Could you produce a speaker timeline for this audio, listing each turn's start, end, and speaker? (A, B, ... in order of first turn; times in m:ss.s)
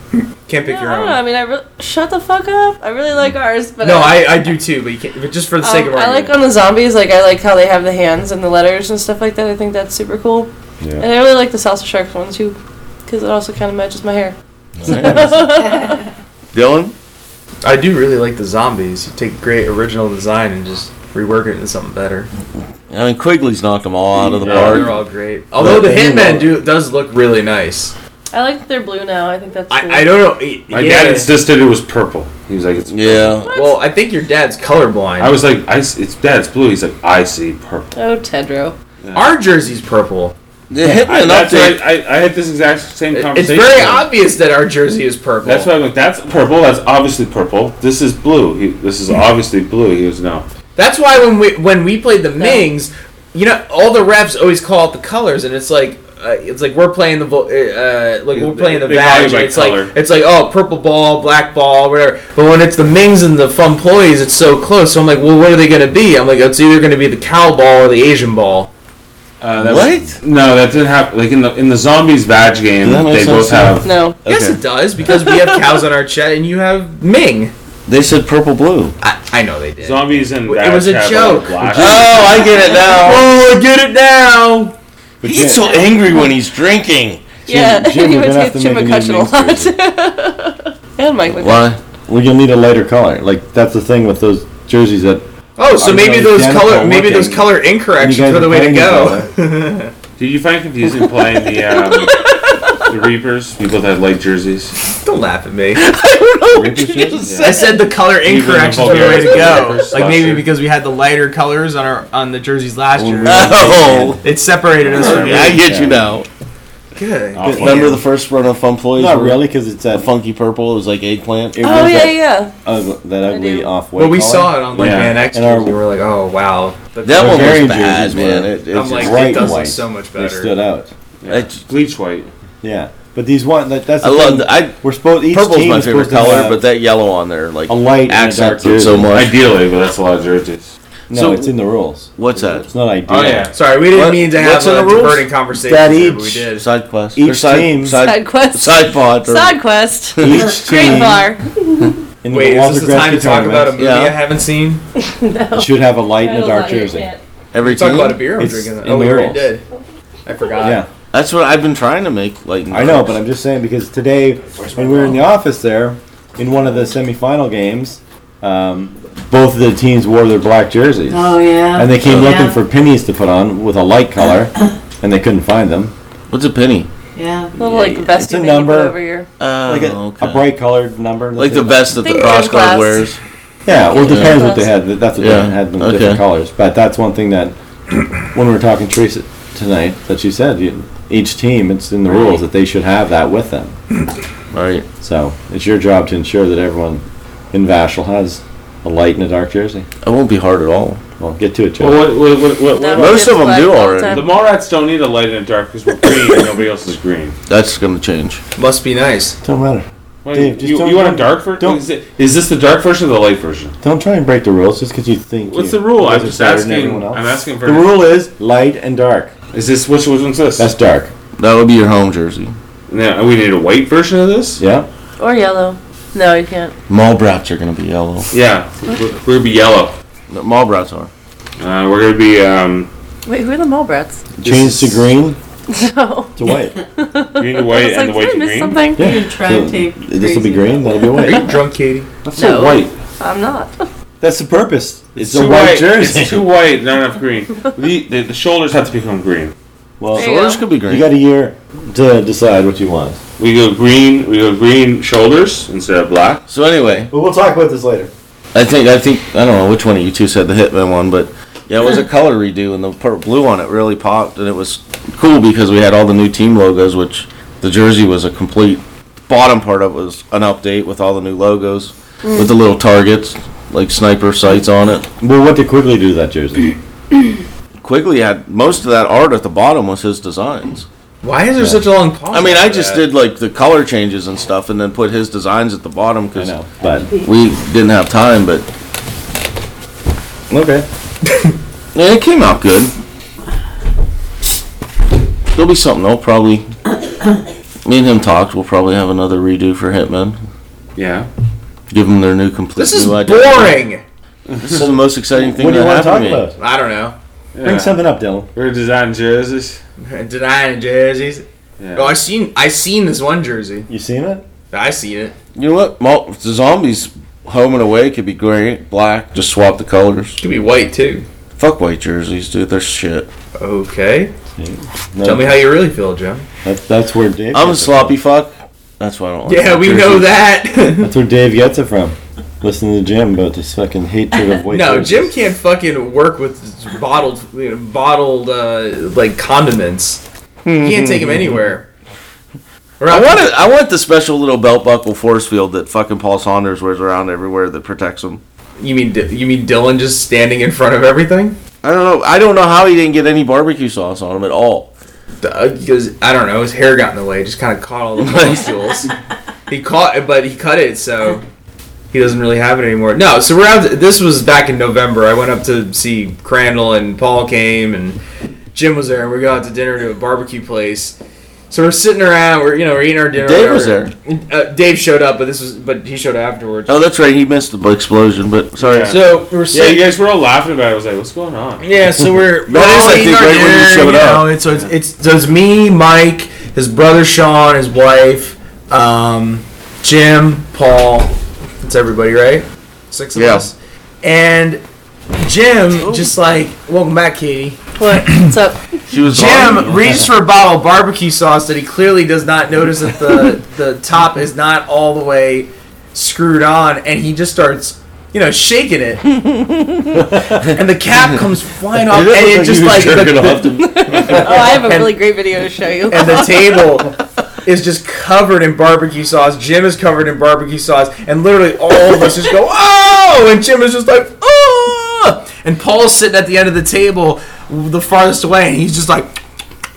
0:00.5-0:01.2 A
0:00.6-0:04.5 B
0:03.8-0:06.4 A
0:05.6-0:14.3 B
0:10.8-0:11.1 C
0:14.8-0:15.6 D
0:14.8-0:16.0 B
0:16.5-0:16.9 D
0:17.6-0:22.3 A
0:22.9-0:25.0 D
0:24.4-0:24.9 E
0:24.4-0:27.9 A
0:25.6-0:26.5 D
0:25.7-0:26.4 C
0:28.3-0:30.2 B
0:29.7-0:31.3 A
0:30.7-0:33.4 E
0:32.9-0:33.5 D
0:33.4-0:33.8 B
0:33.5-0:35.4 A
0:35.2-0:37.9 E
0:38.0-0:38.7 B
0:39.0-0:39.3 E
0:39.1-0:40.3 A
0:40.7-0:41.8 D
0:40.8-0:44.1 E
0:43.1-0:45.7 A
0:45.4-0:50.4 E
0:50.8-1:08.7 A
0:52.4-0:52.7 B
0:58.3-0:59.9 E
1:09.4-1:13.9 E
1:09.6-1:10.2 D
1:12.8-1:14.6 D
1:13.8-1:14.2 B
1:14.2-1:17.5 A
1:15.1-1:15.6 B
1:17.9-1:18.9 D
1:19.0-1:24.8 A
1:19.8-1:22.4 E
1:21.7-1:23.3 D
1:25.2-1:25.8 C
1:25.2-1:27.4 D
1:25.5-1:26.3 B
1:27.5-1:31.8 B
1:27.5-1:29.7 C
1:31.3-1:31.8 D
1:32.1-1:39.3 C
1:35.6-1:39.9 A
1:40.2-1:44.8 E
1:41.5-1:42.9 B
1:45.0-1:45.8 A
1:45.8-1:47.8 B
1:46.5-1:47.2 C
1:47.2-1:47.6 E
1:47.4-1:55.6 A
1:48.2-1:50.5 E
1:49.0-1:49.7 B
1:53.0-1:54.2 C
1:53.2-1:54.2 D
1:54.9-1:55.6 E
1:54.9-1:56.3 D
1:55.4-1:56.0 C
1:56.9-1:57.5 A
1:57.3-1:58.0 E
1:57.4-1:58.0 C
1:57.5-1:59.4 D
1:58.9-2:00.1 C
1:59.9-2:02.0 D
2:01.5-2:05.8 C
2:01.6-2:02.5 B
2:03.3-2:03.7 B
2:04.0-2:07.9 A
2:04.7-2:05.2 E
2:07.0-2:09.6 D
2:07.1-2:10.9 C
2:08.7-2:10.5 A
2:11.2-2:12.3 E
2:11.3-2:11.6 D
2:12.6-2:16.6 C
2:14.0-2:14.8 D
2:15.3-2:19.3 D
2:17.7-2:19.2 C
2:18.9-2:20.7 E
2:21.1-2:21.5 D
2:21.1-2:23.5 C
2:22.2-2:22.7 D
2:23.1-2:23.5 E
2:23.5-2:26.6 A
2:23.9-2:25.3 D
2:25.6-2:26.5 C
2:26.6-2:29.6 D
2:27.2-2:28.0 C
2:27.9-2:32.0 B
2:30.2-2:31.0 D
2:30.2-2:31.3 C
2:32.2-2:33.8 C
2:32.3-2:34.8 A
2:33.8-2:34.2 D
2:35.0-2:37.2 B
2:35.5-2:37.1 C
2:37.5-2:38.3 D
2:37.6-2:39.6 A
2:38.4-2:39.5 C
2:40.2-2:40.8 A
2:40.6-2:40.9 C
2:41.1-2:43.2 D
2:42.7-2:55.9 C
2:51.1-2:52.6 F
2:52.0-2:52.3 D
2:56.3-2:56.9 D
2:57.2-2:58.0 F
2:57.6-2:59.3 B
2:58.0-2:59.0 C
2:59.4-3:00.4 D
2:59.6-3:02.3 C
3:01.4-3:03.2 D
3:01.9-3:03.1 B
3:03.6-3:07.5 C
3:03.7-3:04.7 B
3:04.0-3:04.4 D
3:05.2-3:06.2 D
3:08.2-3:13.8 C
3:14.5-3:14.9 D
3:15.0-3:19.9 C
3:20.0-3:21.0 D
3:21.2-3:22.1 C
3:21.8-3:23.3 E
3:22.7-3:24.3 B
3:22.9-3:24.2 D
3:24.1-3:27.4 E
3:27.5-3:28.4 D
3:28.6-3:29.4 A
3:29.4-3:31.8 C
3:30.2-3:33.7 E
3:33.8-3:39.3 C
3:35.5-3:38.0 E
3:39.5-3:40.7 E
3:40.6-3:41.1 C
3:41.4-3:42.5 D
3:42.9-3:44.6 E
3:44.6-3:44.9 C
3:45.2-3:46.7 B
3:46.9-3:48.3 D
3:48.3-3:50.0 E
3:50.3-3:51.1 D
3:51.6-3:52.9 E
3:53.2-3:54.2 B
3:54.4-3:55.4 C
3:54.4-3:55.0 E
3:55.7-3:59.2 B
3:56.4-3:56.8 C
3:57.4-3:58.8 E
3:59.0-4:01.1 F
3:59.0-4:01.5 C
4:01.2-4:02.1 A
4:02.2-4:03.0 E
4:02.4-4:03.7 B
4:04.2-4:06.5 C
4:05.2-4:09.5 E
4:10.0-4:10.3 C
4:10.1-4:11.1 D
4:10.2-4:10.7 B
4:10.8-4:13.2 C
4:13.4-4:16.4 E
4:16.5-4:17.1 D
4:17.1-4:18.1 C
4:18.5-4:35.1 D
4:32.2-4:32.5 B
4:35.2-4:36.8 C
4:37.8-4:40.9 D
4:41.2-4:43.1 A
4:42.3-4:46.6 D
4:46.3-4:47.1 C
4:47.1-4:48.7 D
4:50.5-4:50.8 C
4:51.9-4:52.9 D
4:55.5-4:56.7 D
4:57.8-5:00.4 D
5:01.0-5:01.3 E
5:01.9-5:03.8 D
5:02.8-5:04.0 A
5:04.5-5:04.9 E
5:04.6-5:06.5 D
5:05.4-5:06.6 C
5:06.6-5:07.1 A
5:07.5-5:08.0 E
5:07.6-5:08.5 C
5:08.5-5:09.8 E
5:10.0-5:13.9 A
5:11.8-5:12.2 E
5:13.9-5:14.4 C
5:14.7-5:15.3 A
5:15.5-5:20.4 D
5:20.4-5:21.2 A
5:21.6-5:23.3 D
5:23.6-5:24.3 A
5:24.6-5:25.8 C
5:25.2-5:26.4 A
5:26.6-5:28.2 C
5:27.5-5:30.4 D
5:29.4-5:31.1 A
5:31.0-5:35.3 C
5:34.7-5:40.2 A
5:40.6-5:41.6 D
5:40.8-5:41.8 A
5:43.0-5:43.4 A
5:43.1-5:48.4 D
5:48.8-5:51.6 A
5:51.8-5:54.9 D
5:55.4-5:59.1 A
5:58.2-5:58.6 D
5:59.7-6:01.4 A
6:02.1-6:08.2 A
6:08.7-6:11.2 A
6:11.7-6:17.0 A
6:13.4-6:14.1 D
6:16.9-6:19.2 D
6:18.8-6:21.9 E
6:19.0-6:20.0 A
6:21.8-6:34.8 A
6:22.3-6:24.5 D
6:33.3-6:33.6 D
6:35.4-6:38.5 A
6:36.0-6:36.3 D
6:38.0-6:39.0 B
6:39.1-6:40.3 D
6:39.3-6:49.2 A
6:50.2-6:50.6 C
6:50.5-6:55.2 A
6:52.0-6:54.5 D
6:53.8-6:57.0 B
6:56.1-7:09.4 A